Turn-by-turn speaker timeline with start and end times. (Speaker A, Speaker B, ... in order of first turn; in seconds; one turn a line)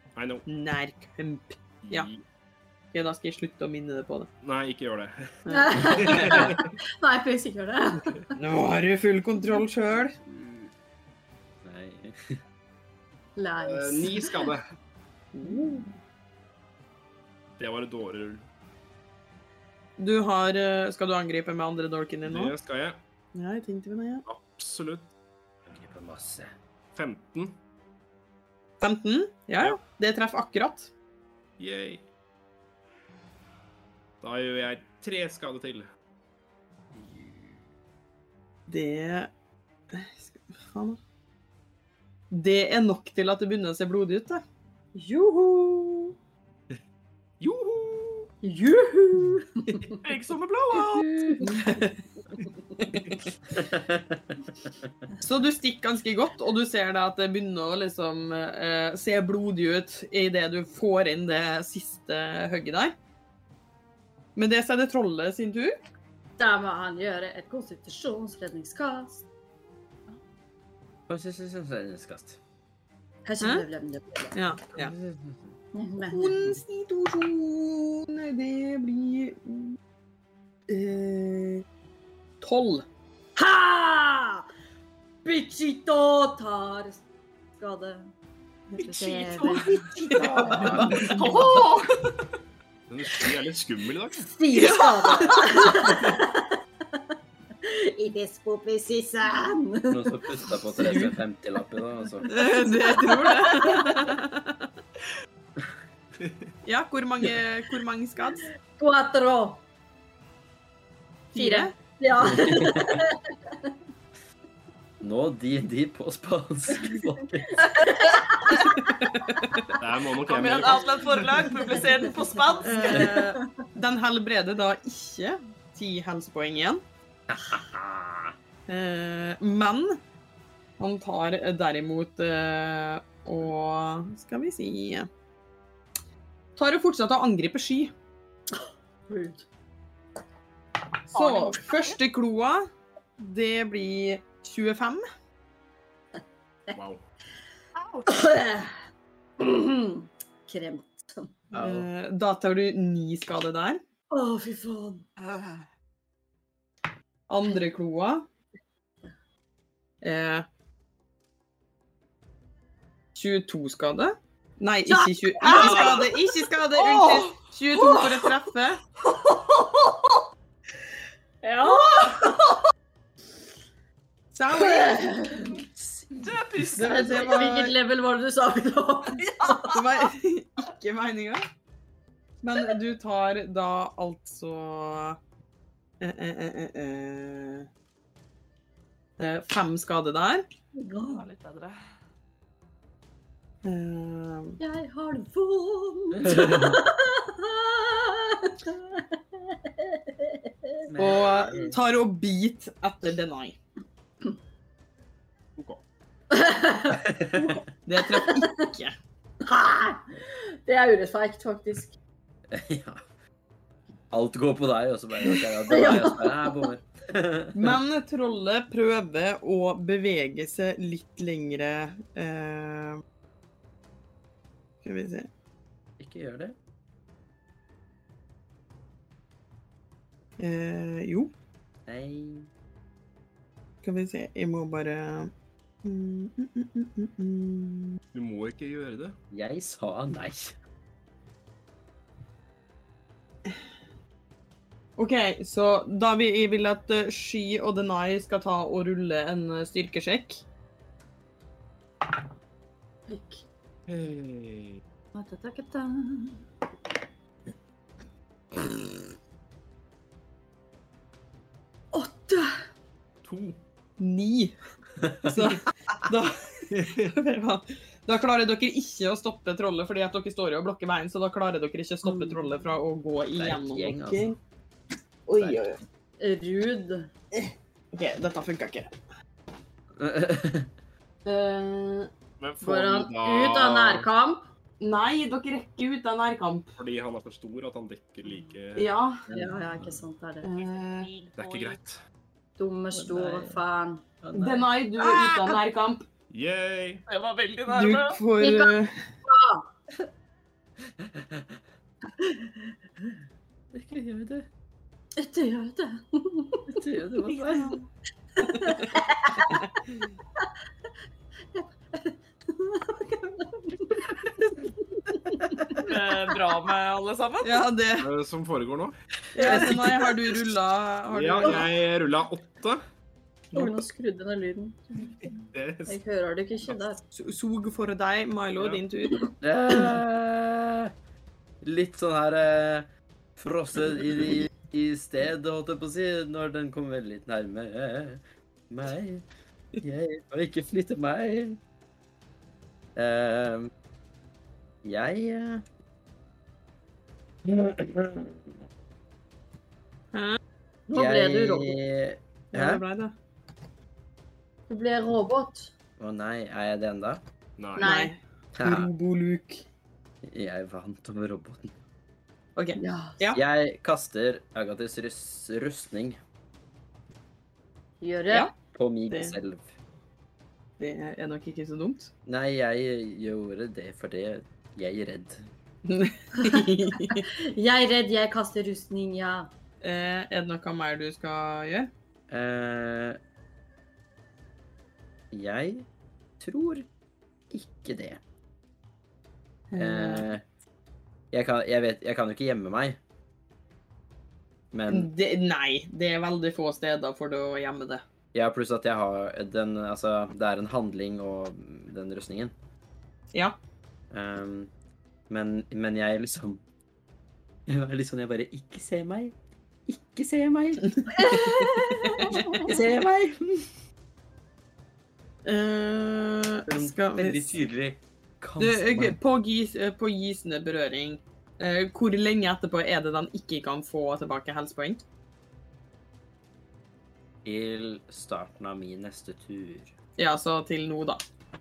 Speaker A: 0.2-0.5
Speaker B: 0.5-2.1
Speaker A: 1.9-2.2
Speaker B: 2.9-4.3
Speaker A: 4.4-5.1
Speaker B: 5.5-6.5
Speaker C: 5.5-8.2
Speaker A: 5.9-6.7
Speaker B: 8.3-10.2
Speaker D: 10.3-10.6
Speaker D: 11.6-12.4
Speaker C: 13.4-14.5
Speaker A: 13.6-14.6
Speaker B: 15.3-15.9
Speaker A: 17.6-18.4
Speaker B: 20.0-22.5
Speaker A: 22.3-23.0
Speaker B: 23.4-24.2
Speaker A: 24.3-25.1
Speaker D: 25.7-26.5
Speaker A: 26.9-27.6
Speaker B: 28.8-30.9
Speaker A: 31.6-32.0
Speaker A: 34.2-35.9
Speaker D: 37.0-37.4
Speaker B: 38.7-39.3
Speaker B: 39.9-41.0
Speaker B: 42.3-44.4
Speaker C: 45.0-46.1
Speaker A: 47.4-48.3
Speaker C: 48.4-50.0
Speaker E: 50.0-51.1
Speaker C: 51.0-51.8
Speaker D: 53.6-54.2
Speaker B: 55.2-63.0
Speaker B: 64.4-65.8
Speaker C: 66.4-69.2
Speaker D: 71.1-72.4
Speaker C: 73.2-74.3
Speaker B: 73.4-73.7
Speaker B: 74.3-75.0
Speaker D: 74.8-75.5
Speaker C: 75.7-76.6
Speaker B: 76.1-79.8
Speaker B: 80.7-81.6
Speaker B: 82.4-82.9
Speaker C: 83.4-84.5
Speaker C: 85.2-87.0
Speaker C: 87.6-88.1
Speaker B: 88.7-91.3
Speaker C: 88.8-91.2
Speaker E: 90.2-92.1
Speaker A: 90.5-91.0
Speaker D: 90.6-91.0
Speaker A: 92.9-94.3
Speaker C: 94.3-101.1
Speaker E: 94.6-95.4
Speaker D: 99.9-102.3
Speaker B: 102.3-104.7
Speaker C: 102.3-104.0
Speaker E: 103.3-103.8
Speaker B: 106.6-108.5
Speaker C: 108.8-109.6
Speaker B: 111.3-111.7
Speaker C: 111.3-113.7
Speaker D: 112.2-113.0
Speaker D: 115.0-117.7
Speaker C: 117.6-118.9
Speaker B: 118.9-119.7
Speaker A: 119.8-121.0
Speaker E: 120.3-123.2
Speaker C: 122.6-123.5
Speaker B: 122.6-126.8
Speaker D: 127.3-128.3
Speaker B: 128.7-130.0
Speaker B: 130.8-135.1
Speaker B: 136.6-137.9
Speaker C: 138.5-139.4
Speaker B: 141.1-142.7
Speaker E: 141.1-142.0
Speaker B: 143.2-145.0
Speaker A: 146.7-147.0
Speaker E: 147.8-148.1
Speaker C: 148.1-148.7
Speaker C: 149.4-151.3
Speaker D: 151.5-151.9
Speaker B: 151.6-153.8
Speaker C: 154.1-155.1
Speaker E: 155.2-155.6
Speaker B: 157.3-158.3
Speaker B: 160.0-160.5
Speaker B: 163.1-168.8
Speaker C: 164.9-166.1
Speaker E: 165.4-166.1
Speaker E: 166.8-168.3
Speaker E: 169.1-170.1
Speaker C: 171.4-172.4
Speaker E: 171.6-172.5
Speaker B: 174.3-175.1
Speaker C: 174.5-175.6
Speaker E: 176.1-177.4
Speaker B: 176.7-177.8
Speaker C: 176.8-179.8
Speaker E: 179.2-179.8
Speaker B: 179.7-181.4
Speaker B: 182.4-185.2
Speaker B: 186.0-187.7
Speaker B: 189.2-190.5
Speaker C: 190.8-191.2
Speaker E: 191.1-191.8
Speaker B: 193.6-194.6
Speaker C: 194.6-200.9
Speaker D: 196.2-196.8
Speaker D: 200.9-201.8
Speaker B: 201.0-203.6
Speaker C: 206.3-208.5
Speaker D: 207.0-207.6
Speaker B: 207.9-208.9
Speaker C: 209.4-211.9
Speaker D: 212.5-213.0
Speaker D: 214.1-217.8
Speaker C: 215.2-216.7
Speaker B: 217.6-223.0
Speaker B: 224.8-225.3
Speaker D: 226.0-226.6
Speaker B: 230.4-231.3
Speaker D: 231.9-232.5
Speaker B: 233.8-235.3
Speaker B: 235.8-238.0
Speaker A: 238.1-239.2
Speaker D: 239.3-240.6
Speaker B: 245.0-250.4
Speaker C: 253.1-253.4
Speaker A: 253.9-254.8
Speaker C: 255.1-256.4
Speaker C: 261.9-262.6
Speaker A: 263.2-263.6
Speaker B: 264.0-264.6
Speaker D: 265.0-265.5
Speaker B: 265.2-274.4
Speaker A: 266.7-267.1
Speaker C: 272.1-272.4
Speaker D: 273.4-274.4
Speaker B: 275.3-275.8
Speaker D: 275.4-275.7
Speaker C: 276.2-277.1
Speaker B: 277.4-278.9
Speaker D: 280.0-280.7
Speaker B: 281.2-282.1
Speaker A: 282.4-284.1
Speaker C: 282.6-284.4
Speaker B: 284.8-286.7
Speaker A: 286.8-288.9
Speaker B: 288.8-289.3
Speaker D: 289.3-290.0
Speaker C: 289.3-290.4
Speaker B: 290.4-291.1
Speaker E: 290.6-291.8
Speaker A: 291.4-292.0
Speaker C: 292.6-294.0
Speaker D: 292.9-293.6
Speaker D: 294.2-294.7
Speaker B: 294.4-296.1
Speaker A: 296.3-297.0
Speaker E: 297.1-298.2
Speaker B: 297.7-299.0
Speaker C: 298.4-298.7
Speaker C: 299.3-299.7
Speaker D: 301.0-301.6
Speaker C: 302.2-302.5
Speaker D: 303.7-304.5
Speaker C: 305.2-306.8
Speaker D: 306.7-307.8
Speaker E: 307.2-307.9
Speaker C: 308.4-309.6
Speaker B: 308.5-308.8
Speaker C: 311.6-314.4
Speaker C: 315.1-315.9
Speaker E: 315.8-317.7
Speaker B: 317.4-318.1
Speaker A: 318.0-319.0
Speaker B: 319.3-321.7
Speaker D: 319.4-319.7
Speaker A: 321.1-322.8
Speaker C: 323.5-325.3
Speaker A: 325.4-326.0
Speaker C: 325.9-327.0
Speaker B: 327.1-329.3
Speaker D: 329.4-330.9
Speaker D: 331.6-339.3
Speaker D: 339.8-341.6
Speaker D: 343.0-343.7
Speaker D: 344.8-345.6
Speaker D: 347.4-348.6
Speaker B: 350.1-350.4
Speaker C: 350.9-351.8
Speaker D: 350.9-352.8
Speaker B: 352.5-353.1
Speaker C: 354.7-355.7
Speaker D: 356.0-357.2
Speaker A: 357.6-357.9
Speaker C: 357.8-358.1
Speaker B: 357.8-359.6
Speaker D: 358.6-358.9
Speaker D: 360.2-361.7
Speaker B: 362.6-363.4
Speaker C: 362.8-363.2
Speaker D: 363.3-366.2
Speaker C: 368.0-368.5
Speaker D: 368.7-369.7
Speaker B: 369.1-369.4
Speaker B: 370.8-372.1
Speaker D: 372.3-375.5
Speaker B: 375.9-377.2
Speaker C: 376.4-379.5
Speaker B: 379.8-381.9
Speaker D: 382.3-383.2
Speaker D: 385.3-385.9
Speaker D: 386.4-386.9
Speaker D: 387.5-388.2
Speaker B: 389.7-390.3
Speaker D: 389.8-390.4
Speaker D: 391.3-393.0
Speaker D: 394.7-395.1
Speaker B: 394.9-398.0
Speaker D: 398.3-402.5
Speaker D: 404.1-404.7
Speaker D: 405.3-406.6
Speaker D: 407.7-409.3
Speaker D: 409.9-413.7
Speaker B: 411.0-411.4
Speaker C: 411.2-412.8
Speaker B: 412.0-412.6
Speaker B: 415.4-417.4
Speaker D: 416.7-419.2
Speaker B: 418.6-425.0
Speaker D: 427.4-429.9
Speaker B: 430.2-431.2